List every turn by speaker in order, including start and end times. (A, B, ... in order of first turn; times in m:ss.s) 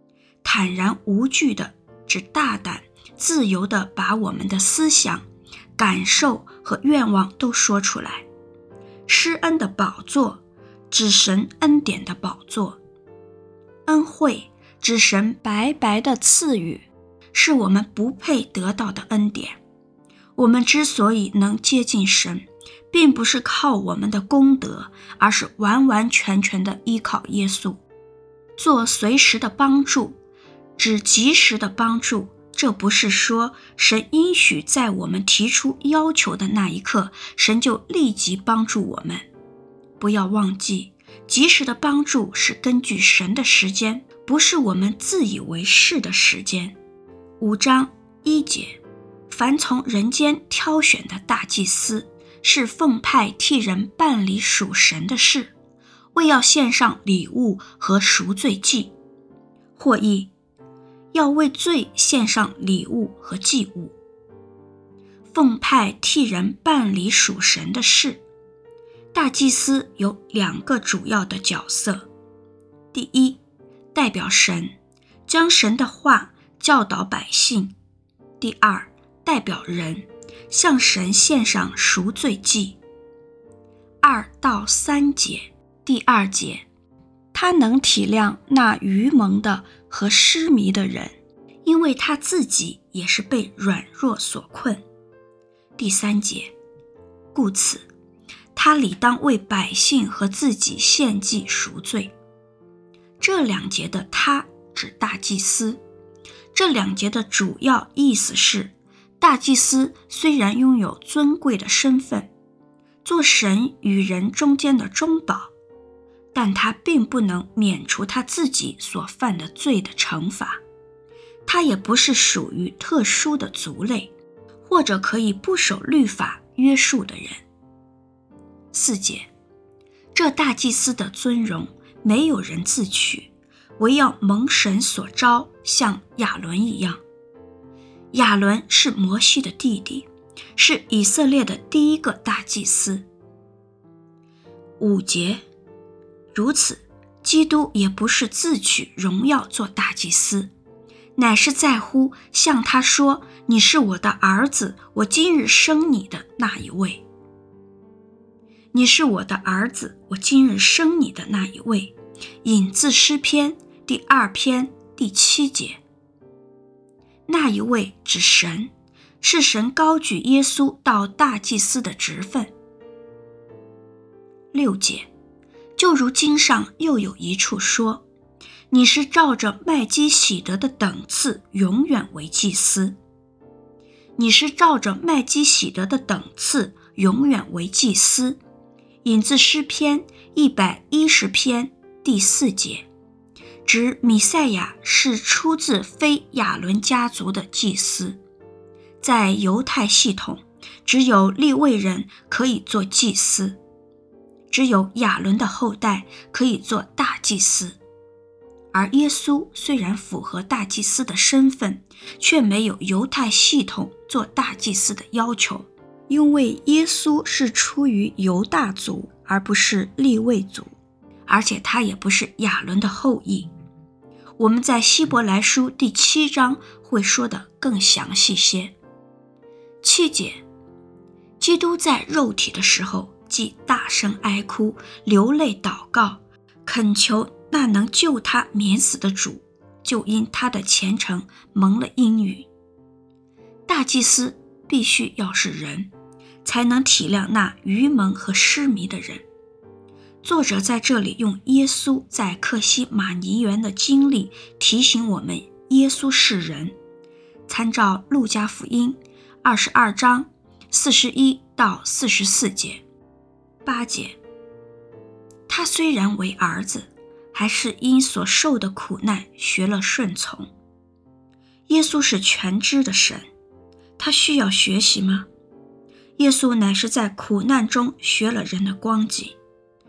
0:00.4-0:05.2 A
0:05.8-0:08.3 A
0:09.1-0:12.8 A
0:13.9-0:19.6 A
0:20.4-0:27.8 A
0:28.6-0:30.2 A
0:30.8-0:39.3 A
0:40.0-0:46.8 A
0:47.4-0:55.5 A
0:56.2-0:58.9 A
0:59.8-1:00.3 A
1:01.1-1:04.0 A
1:05.3-1:08.2 A
1:09.1-1:12.1 A
1:12.9-1:13.4 A
1:13.9-1:14.8 A
1:15.3-1:17.7 A
1:18.4-1:22.8 A
1:24.0-1:26.7 A
1:27.3-1:34.8 A
1:35.8-1:36.5 A
1:37.3-1:37.9 A
1:38.6-1:42.1 A
1:43.2-1:45.8 A
1:46.5-1:52.3 A
1:53.0-1:55.5 A
1:56.3-2:00.6 A
2:01.5-2:04.1 A
2:04.7-2:07.4 A
2:08.7-2:09.3 A
2:10.1-2:17.0 A
2:18.1-2:23.1 A
2:24.8-2:25.4 A
2:26.3-2:30.5 A
2:31.2-2:37.0 A
2:38.7-2:45.8 A
2:47.3-2:48.7 A
2:49.2-2:52.5 A
2:54.5-2:55.1 A
2:55.8-2:58.0 A
2:58.7-3:03.0 A
3:04.2-3:08.4 A
3:09.0-3:12.9 A
3:13.7-3:18.2 A
3:19.0-3:23.6 A
3:24.5-3:27.8 A
3:28.7-3:40.7 A
3:41.3-3:43.5 A
3:44.4-3:48.8 A
3:49.8-3:50.4 A
3:51.4-4:02.5 A
4:03.7-4:05.9 A
4:06.4-4:09.2 A
4:10.2-4:16.8 A
4:17.5-4:22.8 A
4:23.6-4:24.2 A
4:25.5-4:30.5 A
4:31.7-4:33.3 A
4:34.0-4:35.3 A
4:36.2-4:39.4 A